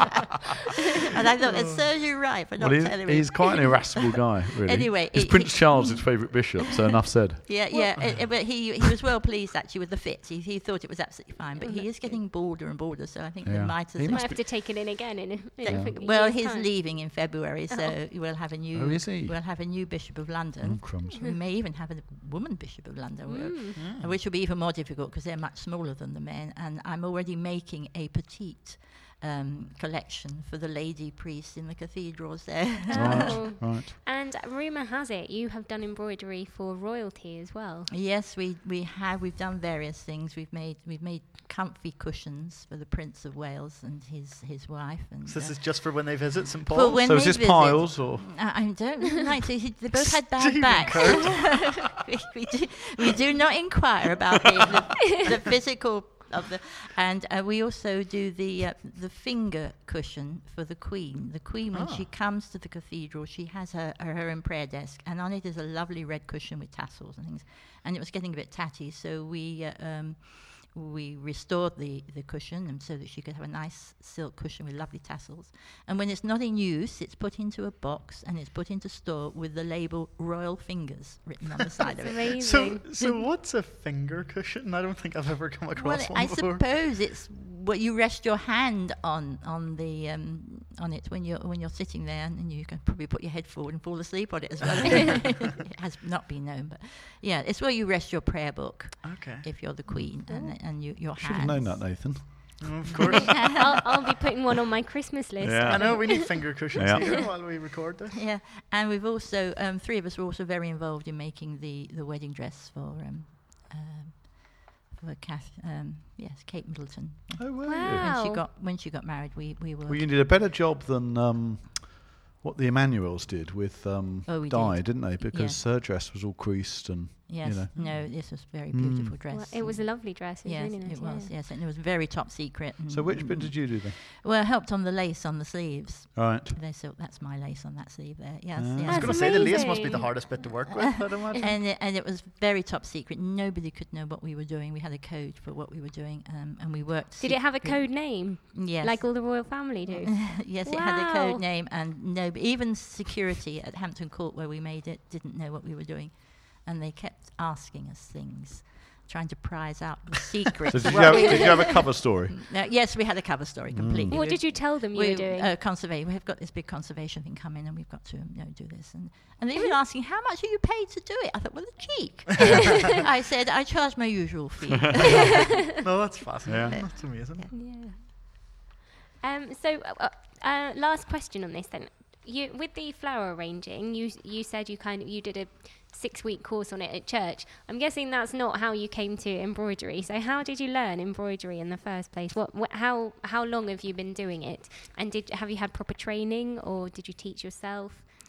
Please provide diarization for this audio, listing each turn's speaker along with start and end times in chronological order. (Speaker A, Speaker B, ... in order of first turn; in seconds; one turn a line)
Speaker A: 1.1-4.0
Speaker B: 1.5-1.9
Speaker C: 2.6-7.5
Speaker A: 4.6-6.5
Speaker A: 7.4-14.3
Speaker D: 11.6-12.2
Speaker C: 13.4-14.7
Speaker D: 14.0-16.9
Speaker C: 15.7-16.0
Speaker A: 15.7-33.4
Speaker D: 17.7-18.0
Speaker C: 18.7-19.4
Speaker C: 20.6-21.2
Speaker D: 23.3-23.8
Speaker B: 23.8-24.2
Speaker D: 32.9-37.9
Speaker C: 33.0-34.0
Speaker A: 37.9-83.2
Speaker B: 45.2-47.1
Speaker C: 47.0-48.5
Speaker B: 50.0-51.8
Speaker B: 61.7-62.1
Speaker D: 82.0-82.8
Speaker B: 82.4-86.7
Speaker A: 85.8-102.6
Speaker B: 99.0-99.6
Speaker C: 99.9-100.2
Speaker D: 100.3-100.6
Speaker C: 101.2-102.7
Speaker B: 102.6-103.5
Speaker D: 103.2-107.2
Speaker C: 105.4-107.2
Speaker B: 105.7-108.2
Speaker A: 108.2-120.1
Speaker C: 117.4-118.1
Speaker D: 117.6-118.4
Speaker C: 119.9-129.1
Speaker A: 124.3-125.6
Speaker A: 127.3-175.3
Speaker B: 127.7-128.1
Speaker D: 129.3-131.3
Speaker C: 132.9-134.0
Speaker C: 136.2-136.6
Speaker C: 138.6-139.1
Speaker D: 138.9-140.5
Speaker B: 138.9-141.4
Speaker D: 147.2-151.4
Speaker C: 160.7-162.4
Speaker B: 160.8-161.2
Speaker D: 161.0-161.6
Speaker C: 163.7-164.2
Speaker D: 164.1-165.5
Speaker B: 175.3-177.5
Speaker C: 176.5-176.8
Speaker A: 176.7-177.8
Speaker D: 177.5-178.1
Speaker D: 179.2-198.1